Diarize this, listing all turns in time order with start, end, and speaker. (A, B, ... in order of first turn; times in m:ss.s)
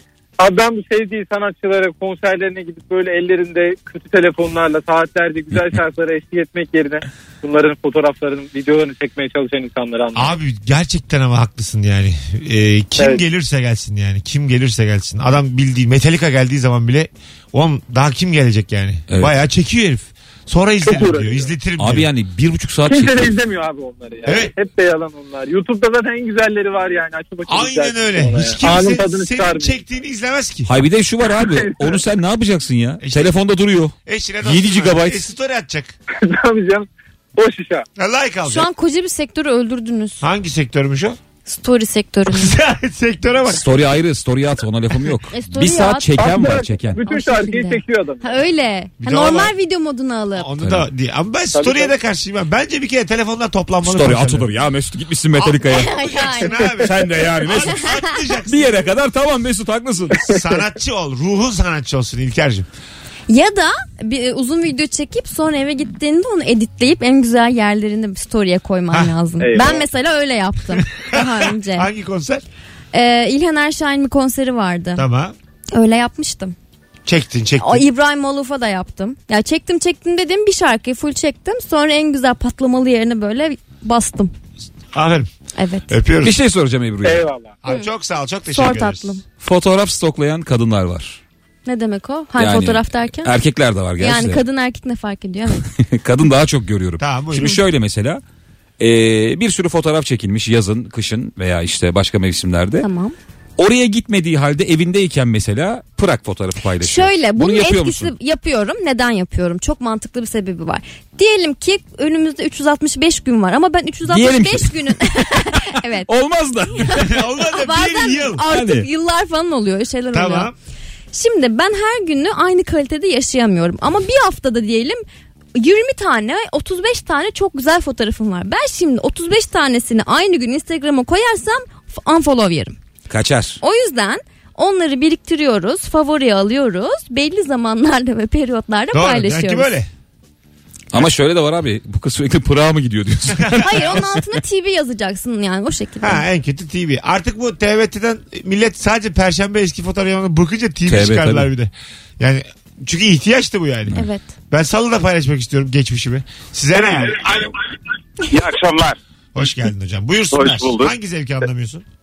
0:00.4-0:10.4 A
0:10.1-0:22.1 B
0:13.0-0:13.2 A
0:20.8-0:21.5 A
0:21.8-0:23.4 C
0:22.9-0:29.8 A
0:24.2-0:24.5 B
0:27.5-0:30.7 B
0:30.7-0:35.3 C
0:31.4-0:32.0 A
0:33.0-0:33.3 B
0:34.0-0:35.9 B
0:36.2-0:37.8 A
0:38.0-0:38.7 B
0:38.4-0:40.2 D
0:40.2-0:41.2 B
0:41.4-0:42.6 D
0:42.3-0:43.8 B
0:43.5-0:47.0 C
0:45.3-0:46.1 D
0:46.2-0:48.4 A
0:47.0-0:50.5 D
0:49.0-0:49.5 B
0:50.4-0:54.5 B
0:50.6-0:50.9 C
0:51.5-0:51.9 A
0:53.8-0:55.9 C
0:55.3-0:58.9 B
0:55.7-0:56.6 D
0:56.8-0:57.8 C
0:57.6-0:58.2 D
0:58.5-1:00.2 C
1:00.2-1:02.7 B
1:03.3-1:11.9 D
1:08.9-1:09.8 B
1:09.4-1:09.9 A
1:10.7-1:12.4 B
1:12.9-1:15.0 D
1:15.0-1:15.3 B
1:15.7-1:16.5 D
1:17.0-1:17.9 B
1:17.6-1:24.3 D
1:24.9-1:25.3 B
1:25.6-1:25.9 D
1:25.9-1:26.3 B
1:26.2-1:27.2 C
1:27.0-1:27.6 A
1:27.6-1:29.2 B
1:28.5-1:29.2 D
1:29.4-1:31.2 C
1:31.6-1:33.3 D
1:32.4-1:34.4 C
1:34.0-1:35.7 D
1:35.7-1:38.2 C
1:37.0-1:37.6 B
1:38.8-1:42.8 C
1:42.8-1:43.1 D
1:43.6-1:48.1 C
1:46.8-1:56.1 D
1:54.1-1:57.1 C
1:56.8-2:00.5 D
1:56.9-1:58.4 B
1:58.5-1:58.9 C
2:00.1-2:00.5 B
2:01.1-2:05.0 D
2:05.6-2:12.8 D
2:13.1-2:13.6 C
2:13.6-2:19.8 D
2:18.9-2:19.9 B
2:20.9-2:24.4 C
2:23.4-2:24.0 B
2:23.6-2:26.2 D
2:26.0-2:37.5 B
2:30.9-2:31.5 C
2:33.9-2:34.3 D
2:37.0-2:37.5 E
2:38.2-2:39.5 E
2:39.3-2:41.8 B
2:40.3-2:40.9 E